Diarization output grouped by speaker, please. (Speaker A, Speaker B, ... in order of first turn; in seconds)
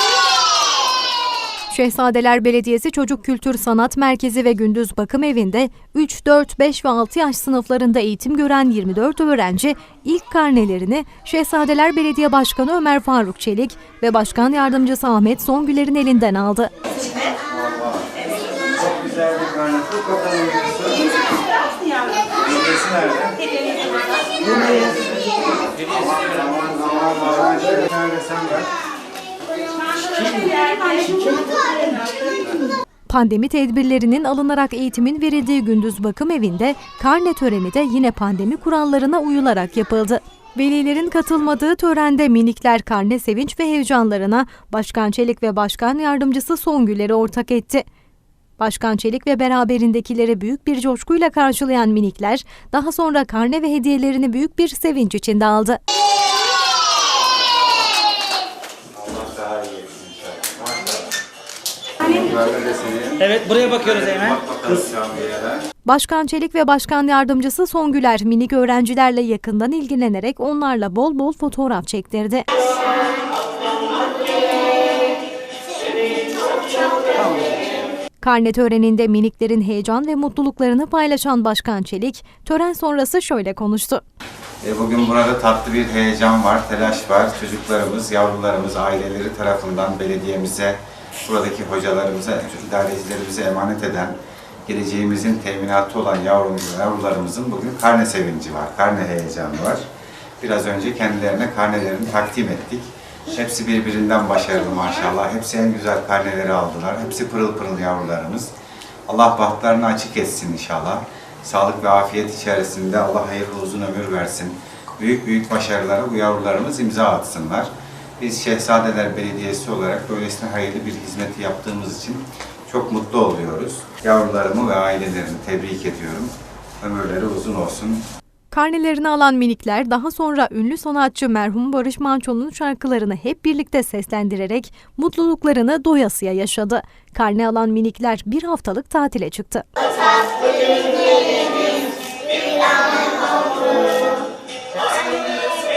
Speaker A: 1.7-16.7, 33.1-47.8, 48.6-55.8, 65.8-72.5, 78.2-84.0, 128.5-139.7
Speaker B: 17.5-21.1, 22.3-23.4, 24.4-25.1, 25.8-28.7, 58.9-61.1, 62.0-65.6, 77.2-77.5, 84.6-99.8, 100.4-108.5, 109.1-128.0